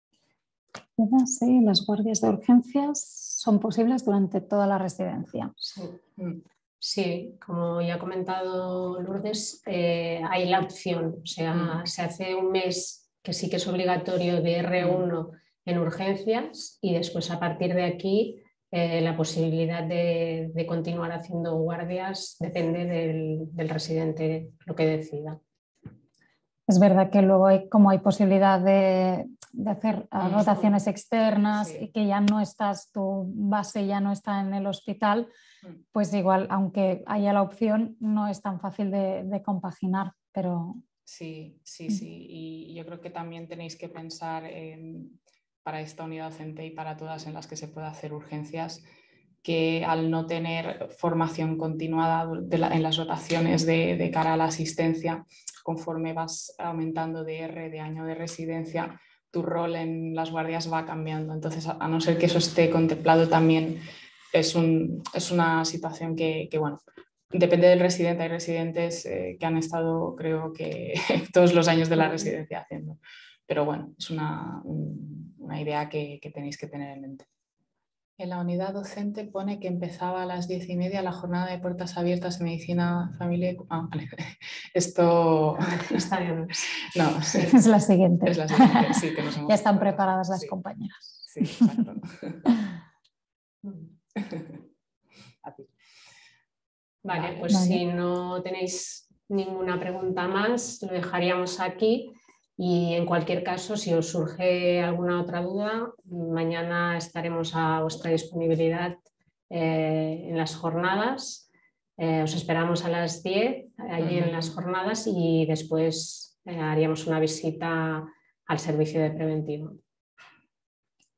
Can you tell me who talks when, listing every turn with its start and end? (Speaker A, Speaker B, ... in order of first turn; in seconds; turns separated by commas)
Speaker A: 1.0-5.5, Speaker B: 5.7-6.0, Speaker B: 6.8-25.4, Speaker C: 11.5-11.8, Speaker C: 14.8-15.1, Speaker A: 26.7-35.3, Speaker C: 30.2-30.6, Speaker C: 31.5-31.9, Speaker A: 35.9-40.8, Speaker C: 41.0-48.9, Speaker C: 49.4-66.8, Speaker C: 67.3-77.3, Speaker C: 78.2-86.0, Speaker B: 85.6-86.7, Speaker C: 86.9-87.5, Speaker A: 87.4-91.7, Speaker C: 88.2-90.5, Speaker C: 91.2-92.5, Speaker B: 93.6-93.9, Speaker C: 94.2-94.5, Speaker B: 97.0-111.5, Speaker C: 97.1-97.4, Speaker A: 97.5-97.8, Speaker B: 112.0-119.8, Speaker C: 114.0-114.5